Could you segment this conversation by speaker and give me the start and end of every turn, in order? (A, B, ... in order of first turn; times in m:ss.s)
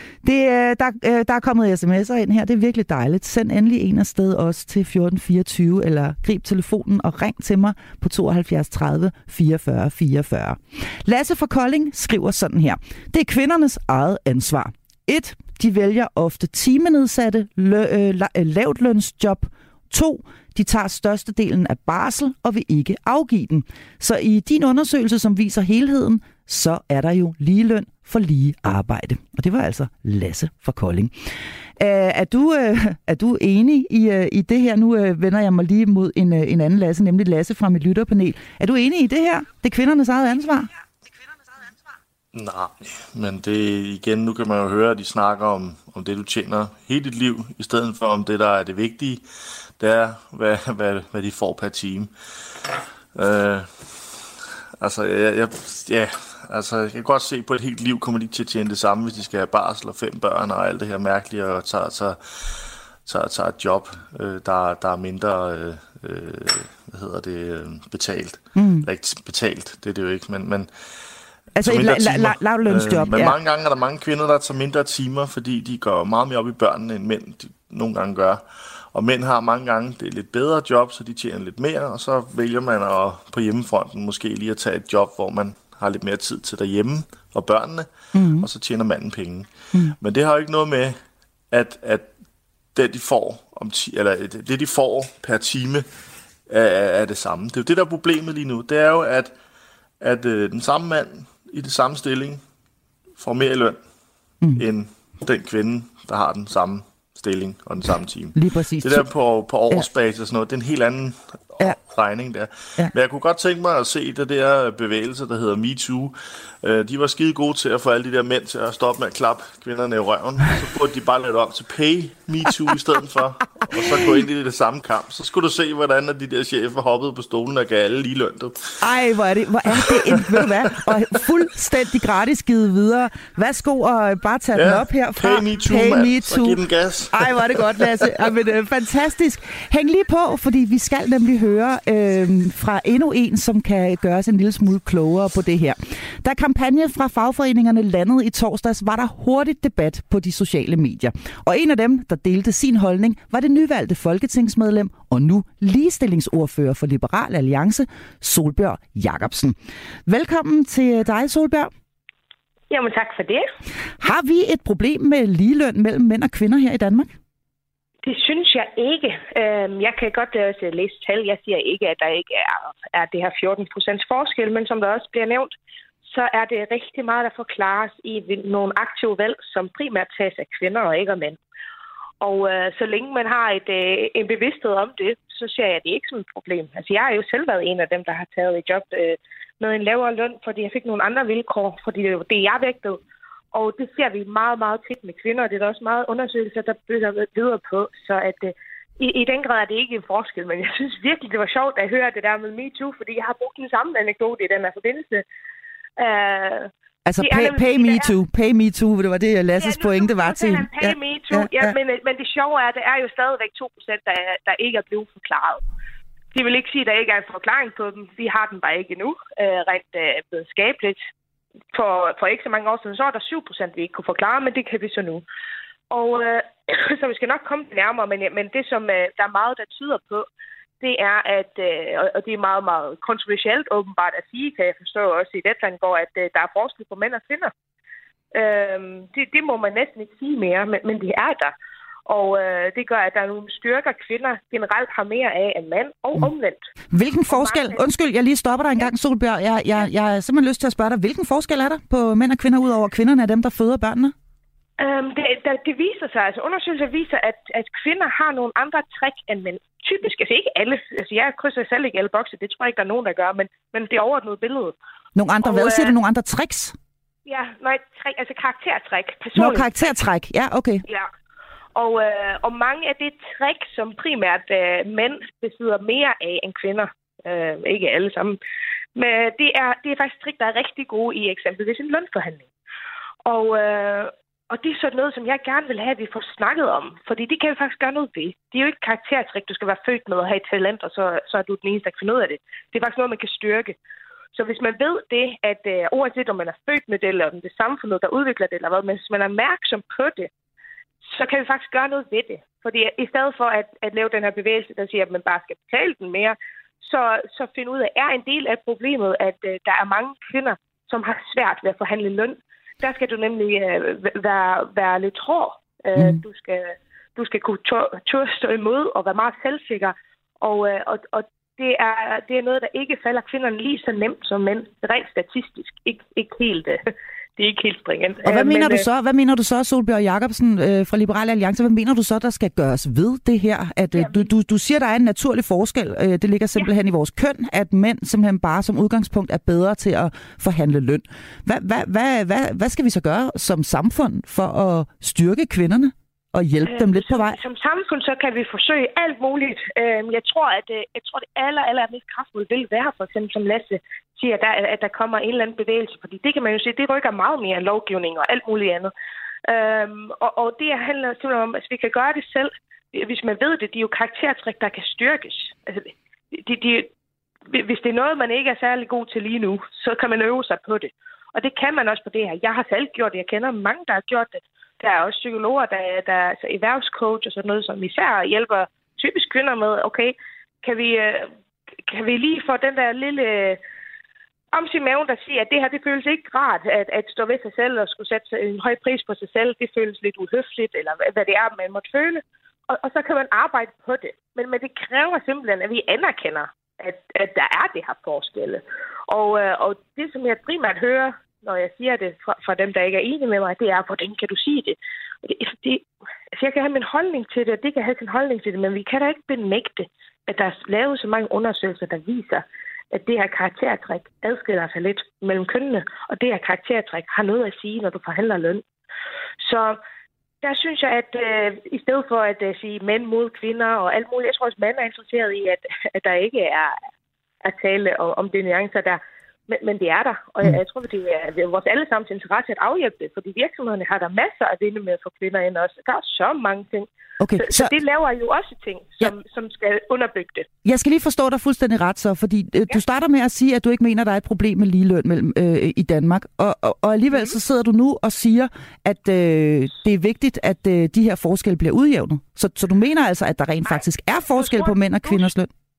0:00.2-0:31.1 A
0:31.8-0:40.7 A
0:42.3-0:49.2 B
0:49.8-0:52.1 B
0:53.2-1:31.0 B
1:08.6-1:08.9 A
1:11.6-1:13.4 A
1:28.1-1:28.5 A
1:31.5-1:32.1 B
1:32.8-1:35.9 B
1:36.5-1:39.3 B
1:40.0-1:42.4 B
1:43.2-1:43.8 B
1:44.6-2:08.8 B
1:48.3-1:49.1 A
2:08.8-2:39.6 A
2:09.8-2:10.5 B
2:14.6-2:18.0 B
2:40.1-2:41.7 A
2:42.7-2:43.5 C
2:44.0-2:47.1 A
2:48.0-3:01.4 C
3:02.2-3:13.0 C
3:13.5-3:25.2 C
3:26.0-3:28.1 C
3:27.0-3:31.7 A
3:29.6-3:35.6 C
3:36.3-3:41.1 C
3:41.7-3:45.2 C
3:45.9-3:50.3 C
3:50.8-3:57.5 C
3:58.3-4:01.5 C
4:02.1-4:06.7 C
4:06.9-4:14.1 A
4:07.3-4:07.8 C
4:14.8-4:24.8 C
4:25.2-4:26.8 A
4:25.4-4:25.9 C
4:27.3-4:30.0 C
4:29.4-4:30.8 A
4:31.8-4:38.4 C
4:39.0-4:42.5 C
4:43.2-4:53.8 C
4:54.4-5:00.3 C
5:01.0-5:26.8 C
5:16.0-5:16.2 A
5:27.4-5:28.8 C
5:28.2-5:47.4 A
5:33.9-5:34.2 C
5:46.6-5:58.9 C
5:59.5-6:06.9 C
6:07.5-6:21.3 C
6:21.9-6:23.6 C
6:24.5-6:58.6 C
6:59.4-6:59.8 C
7:00.4-7:06.8 C
7:07.4-7:20.5 C
7:17.2-7:17.8 A
7:20.6-7:35.5 A
7:34.4-7:35.3 C